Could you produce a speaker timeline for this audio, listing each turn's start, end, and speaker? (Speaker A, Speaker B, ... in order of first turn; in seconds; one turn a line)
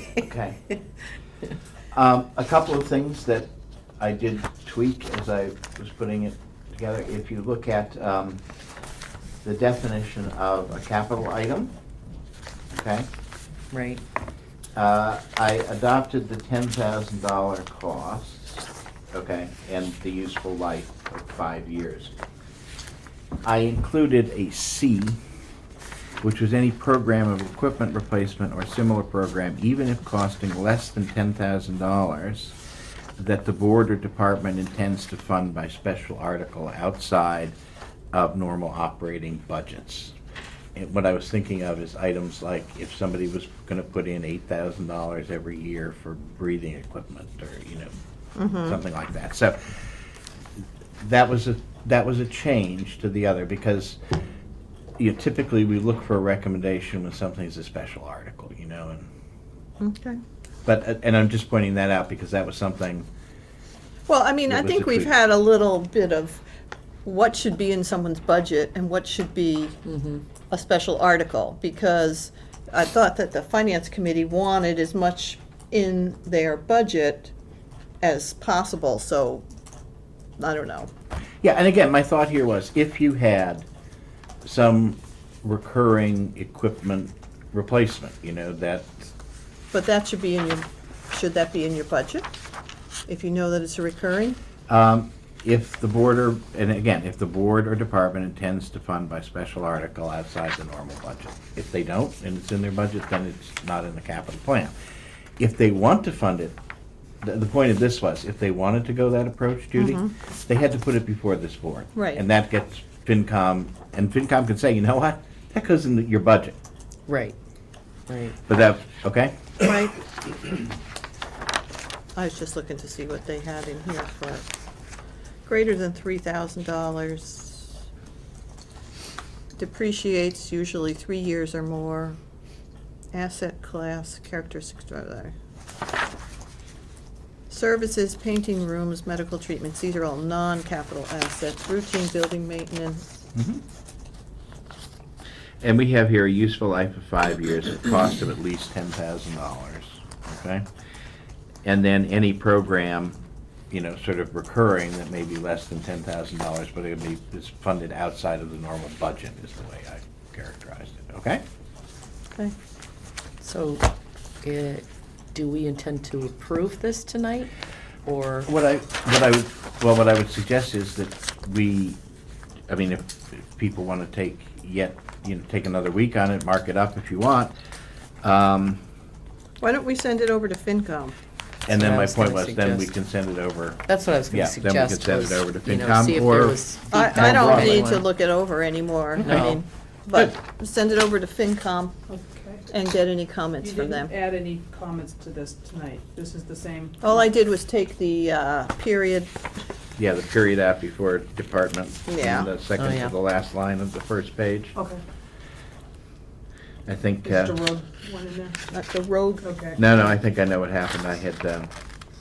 Speaker A: 0.2-0.6
Speaker A: 1.9-8.4
Speaker A: 9.4-11.7
Speaker A: 12.7-13.1
Speaker B: 13.7-14.0
Speaker A: 14.8-22.1
Speaker A: 23.4-25.2
Speaker A: 26.2-32.6
Speaker A: 33.2-37.6
Speaker A: 38.1-40.1
Speaker A: 40.8-47.9
Speaker C: 48.4-48.8
Speaker A: 48.6-49.8
Speaker A: 51.0-54.0
Speaker A: 55.0-59.1
Speaker C: 59.8-60.2
Speaker A: 60.7-63.1
Speaker C: 64.1-66.5
Speaker A: 64.5-65.1
Speaker C: 67.0-69.8
Speaker B: 69.8-70.2
Speaker C: 70.5-77.3
Speaker C: 78.0-79.5
Speaker C: 80.4-80.9
Speaker A: 81.4-83.7
Speaker A: 84.4-89.1
Speaker C: 89.7-92.3
Speaker C: 93.1-94.4
Speaker A: 94.7-104.7
Speaker A: 105.4-106.6
Speaker A: 107.2-116.6
Speaker C: 109.8-110.1
Speaker C: 112.0-112.2
Speaker B: 117.1-117.3
Speaker B: 118.1-118.4
Speaker A: 118.5-119.6
Speaker C: 119.6-120.0
Speaker C: 122.2-124.5
Speaker C: 125.5-127.8
Speaker C: 129.6-132.2
Speaker C: 133.1-135.3
Speaker C: 137.5-143.0
Speaker A: 143.3-143.6
Speaker A: 145.6-150.7
Speaker A: 151.6-153.2
Speaker A: 153.7-161.4
Speaker B: 163.4-163.9
Speaker B: 164.4-167.5
Speaker B: 168.1-168.5
Speaker A: 168.5-172.0
Speaker A: 172.7-177.5
Speaker A: 178.2-178.8
Speaker C: 179.6-181.2
Speaker A: 181.7-187.9
Speaker B: 181.7-182.9
Speaker B: 183.9-188.1
Speaker C: 186.9-191.9
Speaker A: 189.2-189.6
Speaker B: 189.2-189.6
Speaker D: 192.1-192.7
Speaker C: 192.7-194.1
Speaker D: 193.6-197.2
Speaker C: 197.0-199.3
Speaker A: 200.0-204.8
Speaker C: 202.1-202.5
Speaker B: 202.8-203.1
Speaker D: 204.8-205.0
Speaker A: 206.9-207.6
Speaker D: 207.2-208.7
Speaker C: 208.7-209.5
Speaker D: 209.4-209.9
Speaker A: 209.8-211.7